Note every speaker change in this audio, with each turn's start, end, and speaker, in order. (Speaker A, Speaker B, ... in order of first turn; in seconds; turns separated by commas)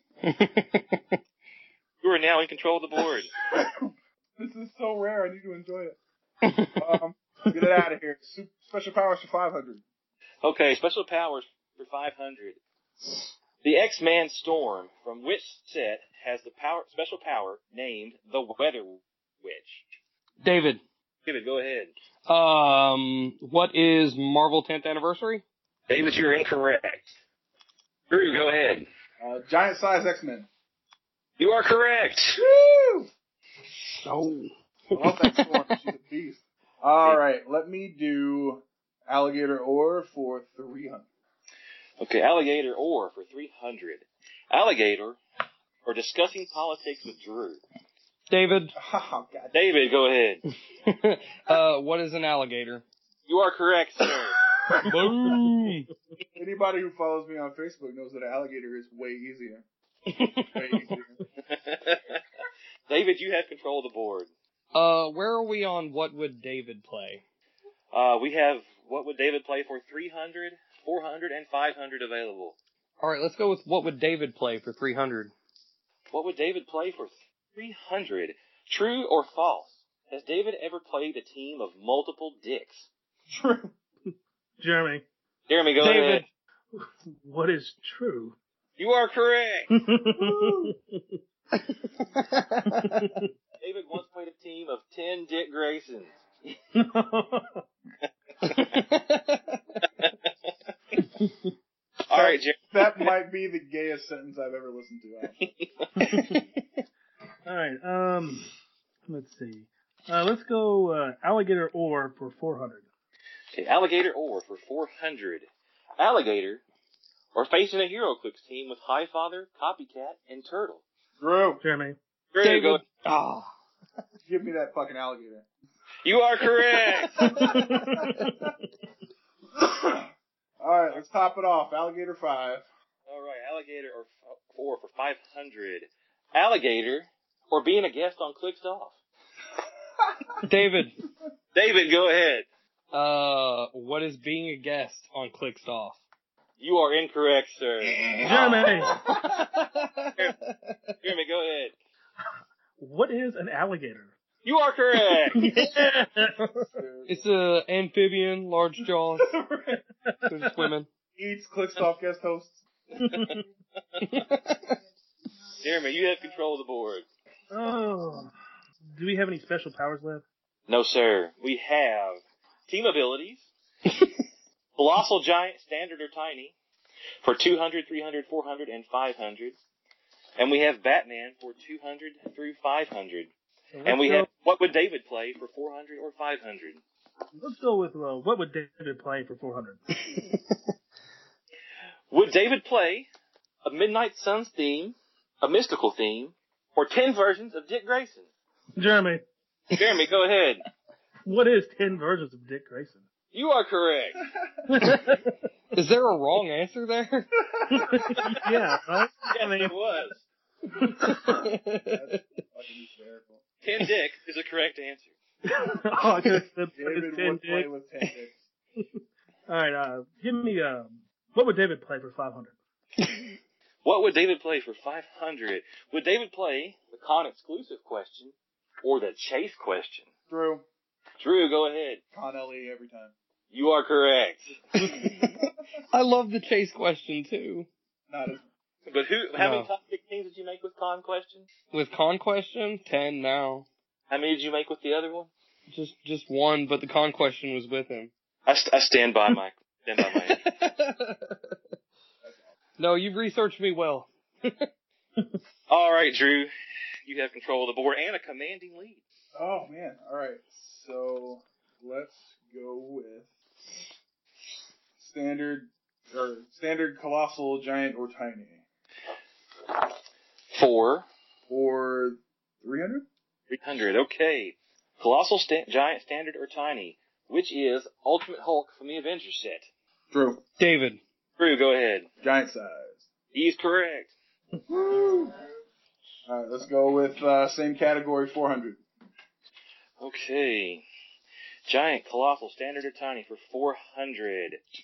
Speaker A: 0.2-1.0, Speaker B: 2.0-3.3, Speaker C: 3.5-6.0, Speaker A: 6.4-6.9, Speaker C: 6.8-9.8, Speaker B: 10.4-12.6, Speaker B: 13.6-19.8, Speaker A: 20.4-20.8, Speaker B: 21.2-21.9, Speaker A: 22.3-25.4, Speaker B: 25.9-27.1, Speaker B: 28.1-28.9, Speaker C: 29.2-30.5, Speaker B: 31.4-32.4, Speaker C: 32.4-33.1, Speaker A: 33.9-35.6, Speaker C: 34.9-41.1, Speaker B: 42.0-45.2, Speaker B: 45.8-47.6, Speaker A: 48.3-48.7, Speaker C: 48.8-49.5, Speaker B: 49.5-50.4, Speaker A: 50.8-52.8, Speaker B: 53.3-54.4, Speaker A: 54.7-55.9, Speaker C: 56.4-59.6, Speaker A: 60.1-60.9, Speaker C: 60.5-61.2, Speaker B: 61.5-62.2, Speaker B: 62.9-64.3, Speaker A: 64.7-67.2, Speaker B: 67.9-72.6, Speaker A: 73.0-75.3, Speaker B: 76.1-82.9, Speaker C: 83.3-83.7, Speaker D: 84.6-85.0, Speaker B: 85.5-86.2, Speaker A: 85.8-86.2, Speaker D: 86.8-88.3, Speaker B: 88.8-89.7, Speaker D: 89.8-91.2, Speaker C: 90.2-90.7, Speaker A: 91.5-93.2, Speaker D: 92.7-93.3, Speaker B: 93.6-96.2, Speaker D: 96.7-97.6, Speaker A: 98.4-99.6, Speaker B: 102.1-102.8, Speaker C: 102.1-105.4, Speaker B: 105.4-105.9, Speaker D: 106.0-106.3, Speaker D: 107.4-108.5, Speaker D: 109.1-112.9, Speaker B: 113.5-115.5, Speaker B: 116.0-116.6, Speaker B: 117.3-120.8, Speaker C: 121.2-121.6, Speaker D: 121.6-122.0, Speaker B: 122.3-122.8, Speaker A: 122.4-123.5, Speaker C: 124.2-125.5, Speaker B: 126.0-127.3, Speaker D: 127.2-128.5, Speaker C: 127.4-128.5, Speaker C: 129.6-130.1, Speaker C: 130.6-132.6, Speaker B: 133.1-138.9, Speaker A: 140.4-140.9, Speaker B: 141.5-142.5, Speaker A: 142.9-146.0, Speaker B: 146.6-149.1, Speaker D: 148.2-148.9, Speaker A: 148.9-150.9, Speaker C: 149.2-149.6, Speaker B: 151.0-151.7, Speaker D: 152.8-154.1, Speaker B: 154.4-155.5, Speaker D: 155.3-156.7, Speaker C: 156.6-157.3, Speaker A: 157.1-159.3, Speaker C: 159.1-159.8, Speaker A: 160.3-160.9, Speaker C: 161.2-162.6, Speaker D: 163.0-163.4, Speaker A: 164.0-164.8, Speaker B: 165.6-167.1, Speaker D: 167.5-168.3, Speaker D: 168.9-170.2, Speaker B: 170.7-173.5, Speaker B: 174.8-176.5, Speaker B: 177.2-179.6, Speaker B: 180.4-183.3, Speaker D: 183.7-184.3, Speaker B: 183.8-186.8, Speaker D: 187.4-189.8, Speaker B: 192.1-193.1, Speaker B: 193.6-198.3, Speaker D: 198.8-199.2, Speaker B: 199.7-200.6, Speaker D: 201.2-203.0, Speaker B: 203.3-204.2, Speaker D: 204.7-205.3, Speaker A: 205.7-207.3, Speaker C: 207.6-207.8, Speaker D: 207.7-209.7, Speaker B: 209.3-210.2, Speaker D: 210.8-211.1, Speaker A: 211.0-212.2, Speaker C: 211.2-213.4, Speaker B: 213.6-215.1, Speaker D: 215.5-217.7, Speaker C: 216.8-218.3, Speaker D: 219.5-222.6, Speaker B: 223.8-230.1, Speaker C: 230.3-230.6, Speaker B: 231.2-232.0, Speaker C: 232.1-233.1, Speaker B: 233.5-234.6, Speaker A: 234.8-235.4, Speaker C: 234.9-235.5, Speaker A: 235.9-237.7, Speaker C: 238.1-238.5, Speaker B: 238.9-241.5, Speaker A: 239.3-239.7, Speaker A: 241.7-243.7, Speaker B: 244.1-245.3, Speaker A: 245.7-248.1, Speaker B: 248.4-250.4, Speaker A: 250.0-251.6, Speaker C: 252.2-252.5, Speaker A: 252.8-254.7, Speaker B: 255.7-256.5, Speaker B: 257.0-259.0, Speaker C: 259.3-263.3, Speaker C: 265.0-268.6, Speaker B: 270.5-271.1, Speaker C: 271.5-273.1, Speaker B: 273.5-279.7, Speaker C: 280.1-280.4, Speaker A: 280.6-281.0, Speaker B: 281.4-282.1, Speaker C: 282.2-283.1, Speaker B: 283.3-284.1, Speaker C: 284.7-285.4, Speaker C: 286.2-288.8, Speaker B: 290.0-290.8, Speaker B: 291.6-294.6